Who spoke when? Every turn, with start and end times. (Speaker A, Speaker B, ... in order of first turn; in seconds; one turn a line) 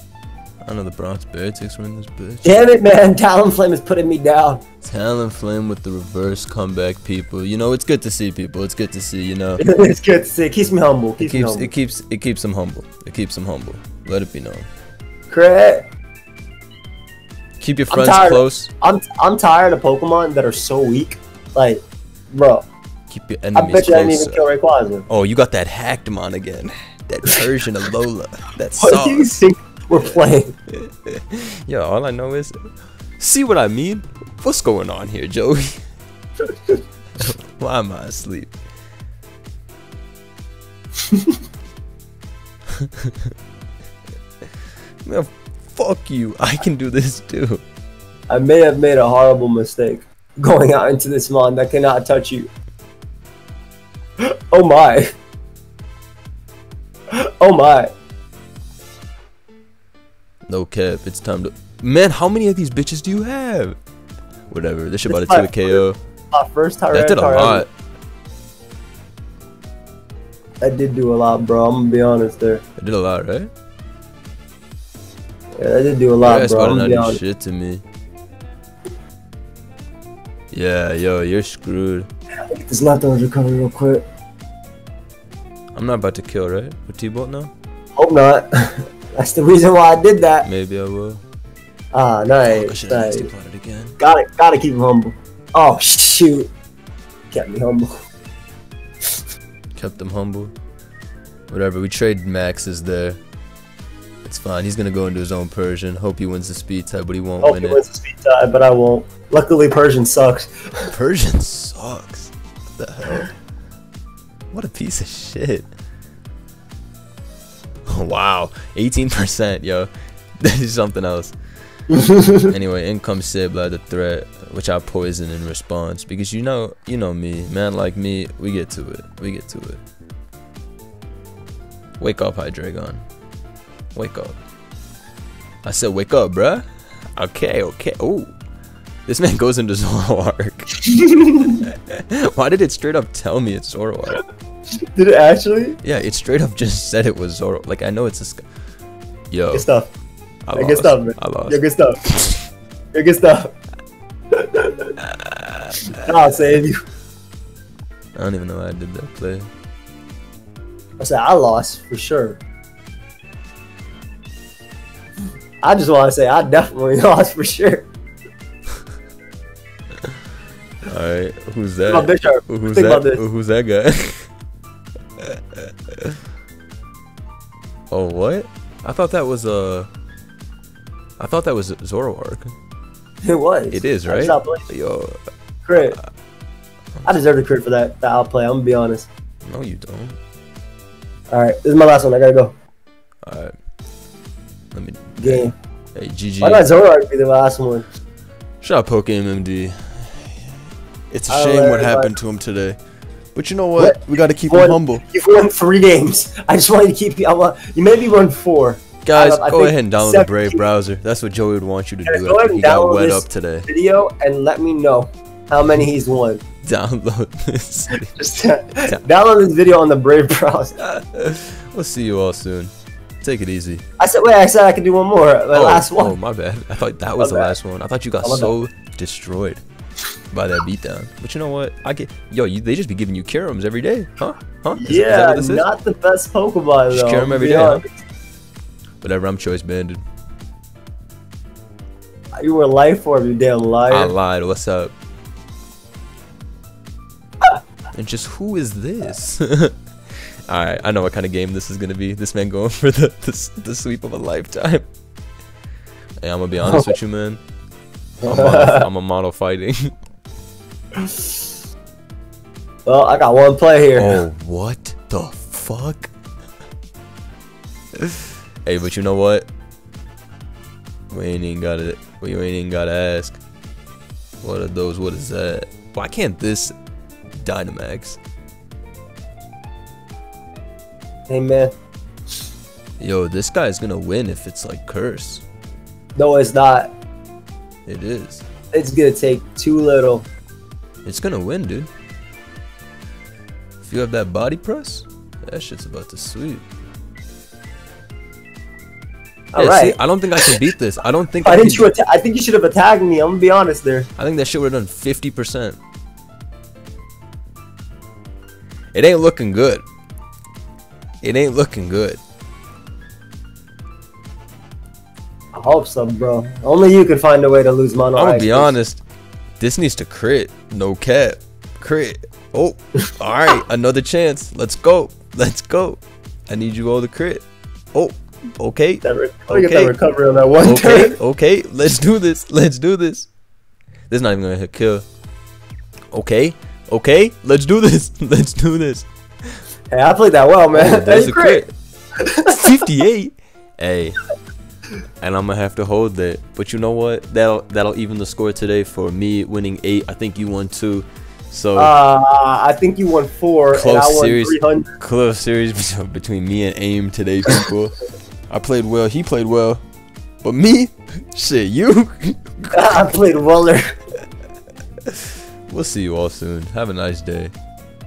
Speaker A: 0.6-2.6
Speaker B: 2.4-4.6
Speaker A: 4.8-9.6
Speaker B: 9.6-11.7
Speaker A: 11.2-14.7
Speaker B: 15.3-15.8
Speaker A: 17.6-18.7
Speaker B: 17.9-22.7
Speaker A: 23.1-24.5
Speaker B: 23.6-25.1
Speaker A: 25.1-29.3
Speaker B: 28.8-30.5
Speaker A: 30.7-32.7
Speaker A: 33.2-35.8
Speaker A: 37.2-38.5
Speaker B: 41.1-41.4
Speaker A: 42.8-43.3
Speaker A: 45.0-47.6
Speaker B: 48.3-52.5
Speaker B: 54.2-55.1
Speaker B: 57.1-57.9
Speaker A: 60.5-63.8
Speaker A: 64.5-66.0
Speaker B: 65.1-67.7
Speaker A: 66.9-67.7
Speaker B: 70.6-72.6
Speaker A: 72.8-73.5
Speaker B: 75.6-77.2
Speaker A: 76.2-77.8
Speaker A: 80.5-82.1
Speaker B: 82.4-84.0
Speaker A: 85.8-87.5
Speaker B: 88.0-90.5
Speaker A: 90.4-91.2
Speaker B: 91.9-93.3
Speaker A: 92.4-94.0
Speaker B: 94.0-96.5
Speaker B: 97.3-98.0
Speaker A: 99.8-100.5
Speaker A: 101.5-103.2
Speaker A: 104.2-107.8
Speaker B: 107.4-110.9
Speaker A: 110.9-113.3
Speaker A: 114.5-115.7
Speaker A: 117.9-121.3
Speaker B: 121.9-122.5
Speaker A: 122.4-129.8
Speaker A: 132.0-133.0
Speaker A: 133.9-134.4
Speaker A: 135.6-138.3
Speaker A: 139.1-140.8
Speaker B: 140.8-141.6
Speaker A: 141.4-144.2
Speaker B: 144.8-145.8
Speaker A: 145.8-148.5
Speaker A: 149.3-149.7
Speaker B: 149.5-149.9
Speaker A: 150.5-152.5
Speaker B: 150.6-152.0
Speaker B: 152.9-153.5
Speaker B: 154.3-155.0
Speaker A: 155.0-156.1
Speaker B: 155.9-156.8
Speaker A: 158.2-159.5
Speaker B: 161.0-162.4
Speaker B: 165.6-167.9
Speaker A: 170.8-174.3
Speaker B: 171.9-173.2
Speaker A: 175.2-176.2
Speaker A: 177.9-179.9
Speaker A: 181.2-182.5
Speaker B: 183.2-184.7
Speaker A: 183.7-185.2
Speaker B: 185.7-186.0
Speaker B: 187.1-189.1
Speaker A: 189.4-190.2
Speaker B: 191.3-192.5
Speaker A: 193.3-193.5
Speaker A: 194.7-196.7
Speaker B: 195.2-195.5
Speaker B: 196.4-197.9
Speaker A: 198.6-200.4
Speaker A: 201.1-202.8
Speaker B: 201.3-202.2
Speaker A: 203.3-205.0
Speaker B: 203.8-210.6
Speaker A: 209.0-213.7
Speaker B: 212.1-216.4
Speaker A: 216.6-218.2
Speaker B: 218.2-220.8
Speaker A: 220.8-223.8
Speaker B: 224.0-226.2
Speaker A: 225.5-229.6
Speaker B: 227.2-227.6
Speaker B: 228.2-228.6
Speaker A: 230.3-235.7
Speaker B: 234.8-238.0
Speaker A: 236.9-237.8
Speaker A: 239.0-240.0
Speaker B: 242.4-244.1
Speaker A: 243.9-244.9
Speaker A: 247.9-254.9
Speaker A: 256.2-257.4
Speaker B: 256.6-256.9
Speaker A: 258.2-259.9
Speaker B: 258.2-258.9
Speaker B: 260.9-261.5
Speaker B: 262.9-264.2
Speaker A: 264.0-266.1
Speaker A: 268.0-269.5
Speaker A: 271.1-273.4
Speaker A: 274.4-276.7
Speaker A: 277.4-278.2
Speaker B: 281.3-281.7
Speaker A: 283.0-285.4
Speaker B: 286.2-286.9
Speaker A: 287.9-288.5
Speaker B: 288.7-290.3
Speaker A: 291.1-291.9
Speaker A: 293.8-296.6
Speaker B: 299.5-300.6
Speaker A: 299.6-301.9
Speaker B: 301.4-304.1
Speaker A: 304.2-305.8
Speaker A: 308.9-309.9
Speaker A: 311.2-312.2
Speaker B: 315.5-318.8
Speaker A: 318.1-319.0
Speaker A: 319.6-329.9
Speaker B: 329.0-331.2
Speaker A: 330.6-333.3
Speaker A: 334.1-335.1
Speaker A: 336.1-339.6
Speaker B: 339.9-341.6
Speaker A: 340.7-341.7
Speaker B: 342.2-342.7
Speaker A: 342.5-344.2
Speaker A: 345.2-351.9
Speaker B: 351.8-354.9
Speaker A: 353.7-358.0
Speaker A: 358.5-359.8
Speaker A: 360.4-363.1
Speaker B: 362.7-363.9
Speaker A: 365.1-367.5